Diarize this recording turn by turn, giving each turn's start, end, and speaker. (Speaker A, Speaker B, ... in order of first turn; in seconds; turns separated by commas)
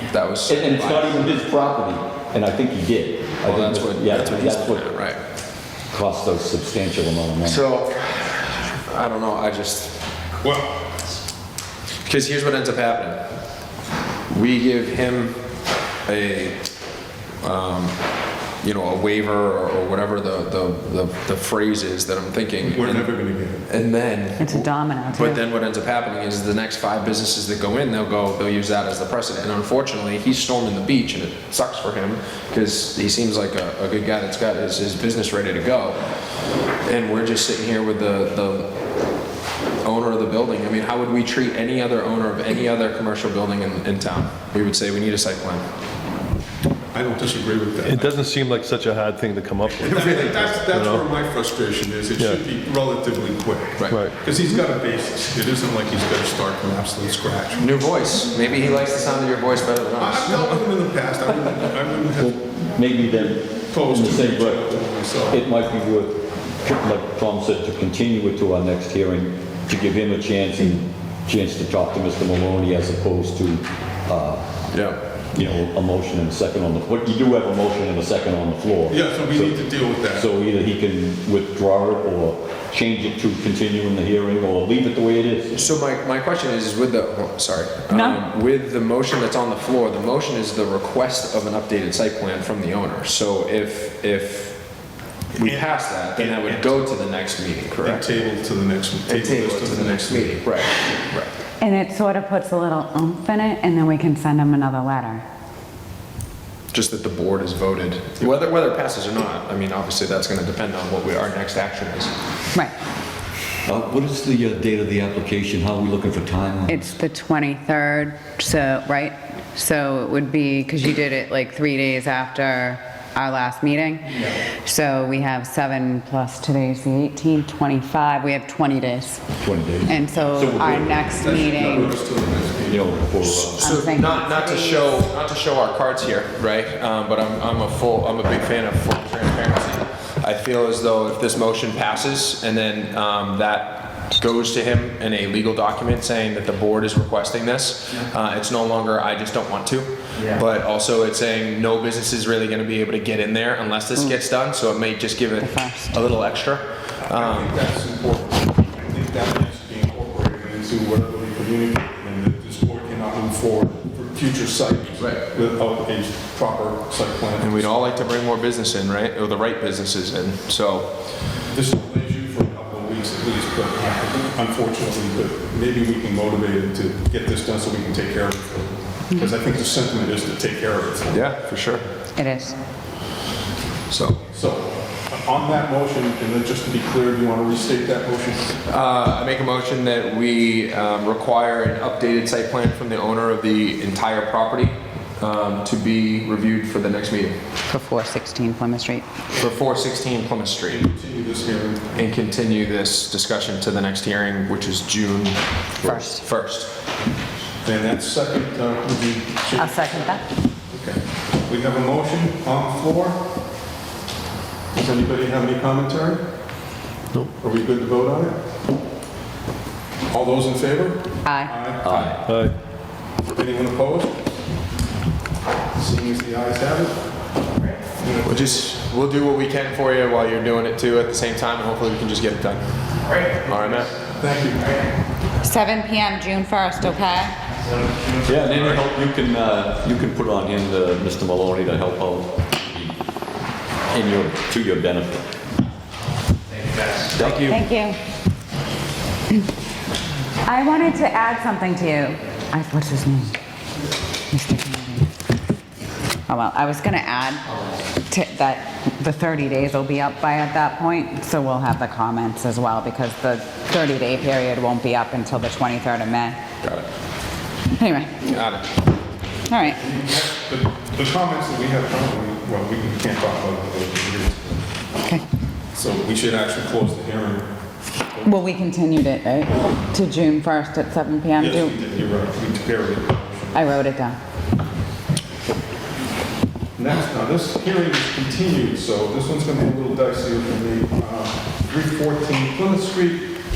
Speaker A: 0.1-1.2, Speaker B: 0.5-4.8, Speaker A: 3.4-5.2, Speaker B: 5.9-7.6, Speaker A: 7.4-10.0, Speaker C: 10.4-10.8, Speaker A: 12.1-13.2, Speaker A: 14.3-15.3, Speaker A: 16.1-16.6, Speaker A: 17.4-17.9, Speaker A: 18.6-23.1, Speaker C: 22.6-23.7, Speaker A: 23.7-36.0, Speaker D: 24.4-25.4, Speaker A: 36.8-38.7, Speaker A: 39.8-45.6, Speaker C: 46.9-48.2, Speaker E: 47.9-51.0, Speaker C: 49.8-57.7, Speaker E: 53.8-54.1, Speaker A: 57.6-60.6, Speaker C: 60.0-62.4, Speaker B: 62.2-64.6, Speaker C: 63.7-65.5, Speaker B: 65.3-74.5, Speaker A: 74.7-75.0, Speaker B: 75.3-79.5, Speaker C: 78.9-80.3, Speaker B: 80.1-85.6, Speaker A: 85.5-94.7, Speaker D: 87.9-88.2, Speaker A: 95.3-98.1, Speaker C: 95.4-97.0, Speaker C: 97.8-100.5, Speaker A: 99.1-101.3, Speaker D: 101.6-105.2, Speaker A: 106.7-112.1, Speaker B: 113.7-116.9, Speaker D: 116.7-129.2, Speaker B: 129.4-130.9, Speaker D: 129.8-131.9, Speaker C: 130.6-133.4, Speaker B: 131.6-131.9, Speaker B: 132.7-133.8, Speaker A: 133.4-157.5, Speaker D: 133.6-135.0, Speaker D: 155.4-156.0, Speaker C: 157.1-167.7, Speaker A: 165.0-165.2, Speaker A: 167.4-171.1, Speaker C: 171.5-181.2, Speaker A: 181.1-181.9, Speaker D: 182.2-182.6, Speaker A: 183.9-184.2, Speaker C: 184.2-188.6, Speaker A: 188.6-197.3, Speaker D: 197.7-199.1, Speaker A: 199.4-200.8, Speaker C: 200.6-202.0, Speaker A: 201.9-206.8, Speaker D: 205.8-206.2, Speaker C: 207.6-213.2, Speaker D: 209.6-210.2, Speaker C: 214.7-216.3, Speaker C: 217.4-218.4, Speaker C: 220.1-221.9, Speaker D: 221.2-221.6, Speaker B: 221.8-222.2, Speaker E: 222.2-222.5, Speaker C: 223.2-224.3, Speaker C: 225.7-227.3, Speaker C: 228.0-228.7, Speaker A: 228.2-233.9, Speaker C: 234.2-234.8, Speaker D: 235.4-237.3, Speaker B: 238.2-242.9, Speaker B: 243.9-245.3, Speaker B: 247.1-247.6, Speaker D: 247.4-248.0, Speaker D: 250.4-253.4, Speaker D: 254.3-255.1, Speaker D: 256.3-257.5, Speaker D: 258.1-266.4, Speaker D: 267.8-268.1, Speaker A: 268.2-268.7, Speaker D: 269.5-269.8, Speaker C: 269.7-274.6, Speaker C: 275.7-277.5, Speaker C: 278.1-278.4, Speaker D: 278.2-281.7, Speaker C: 281.4-283.7, Speaker D: 283.5-284.2, Speaker C: 286.8-293.4